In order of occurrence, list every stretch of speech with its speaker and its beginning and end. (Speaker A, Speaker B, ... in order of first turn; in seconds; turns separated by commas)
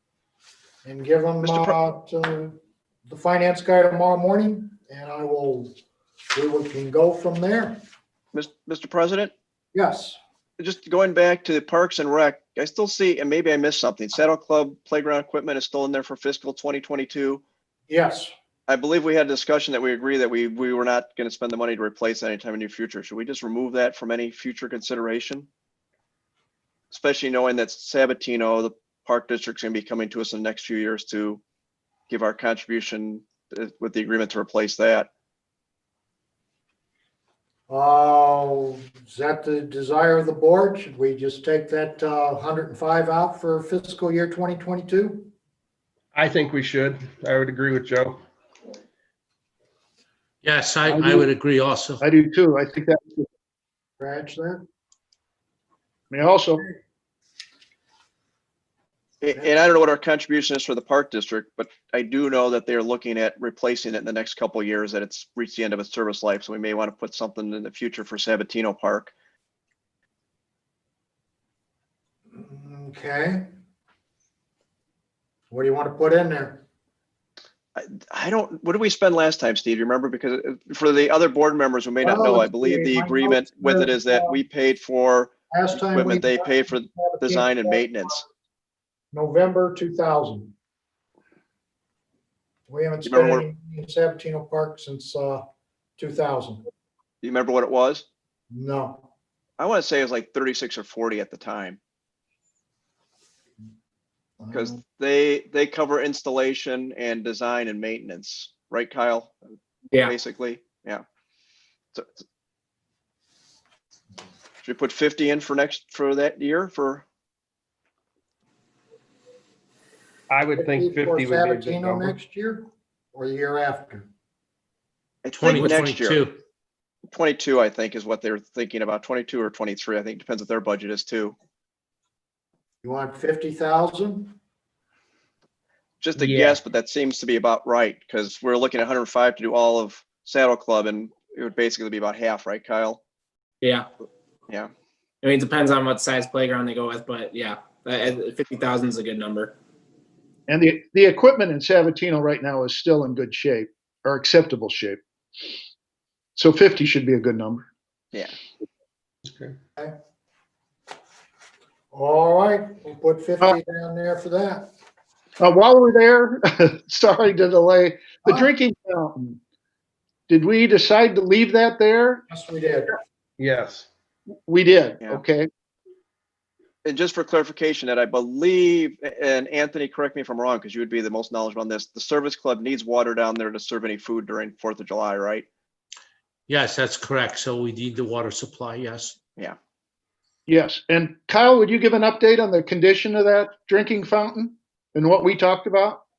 Speaker A: 0.8-2.5, Speaker B: 1.4-1.8, Speaker A: 3.1-5.7, Speaker A: 6.3-7.8, Speaker B: 8.3-9.3, Speaker A: 9.7-10.2, Speaker B: 10.6-17.4, Speaker A: 17.9-18.3, Speaker B: 18.7-25.5, Speaker B: 26.9-31.4, Speaker B: 32.1-35.1, Speaker A: 37.7-45.3, Speaker C: 46.1-48.2, Speaker D: 50.4-52.0, Speaker E: 50.9-51.3, Speaker E: 52.0-53.3, Speaker A: 54.0-54.6, Speaker E: 56.1-56.7, Speaker B: 59.2-69.1, Speaker A: 72.3-73.5, Speaker A: 75.5-76.6, Speaker B: 77.8-88.2, Speaker A: 82.0-84.4, Speaker A: 85.5-88.0, Speaker A: 89.1-90.5, Speaker A: 92.7-95.5, Speaker B: 93.0-93.4, Speaker A: 96.0-96.6, Speaker B: 97.2-98.0, Speaker A: 98.5-99.0, Speaker B: 99.6-101.8, Speaker A: 104.4-104.8, Speaker B: 104.5-109.4, Speaker B: 110.0-111.0, Speaker B: 111.9-112.2, Speaker B: 114.6-117.0, Speaker C: 120.3-122.1, Speaker A: 120.5-124.1, Speaker B: 125.2-126.2, Speaker D: 125.4-126.4, Speaker B: 127.1-131.3, Speaker A: 132.8-134.3, Speaker B: 136.0-143.0, Speaker F: 143.6-143.9, Speaker F: 145.2-149.5, Speaker E: 150.5-155.0, Speaker E: 156.3-157.7, Speaker C: 159.2-159.5, Speaker A: 161.9-164.7, Speaker E: 165.4-169.4, Speaker E: 170.3-172.2, Speaker A: 172.3-172.9, Speaker C: 173.4-173.9, Speaker E: 174.5-175.5, Speaker B: 176.8-185.4, Speaker D: 186.5-189.1, Speaker E: 190.5-196.0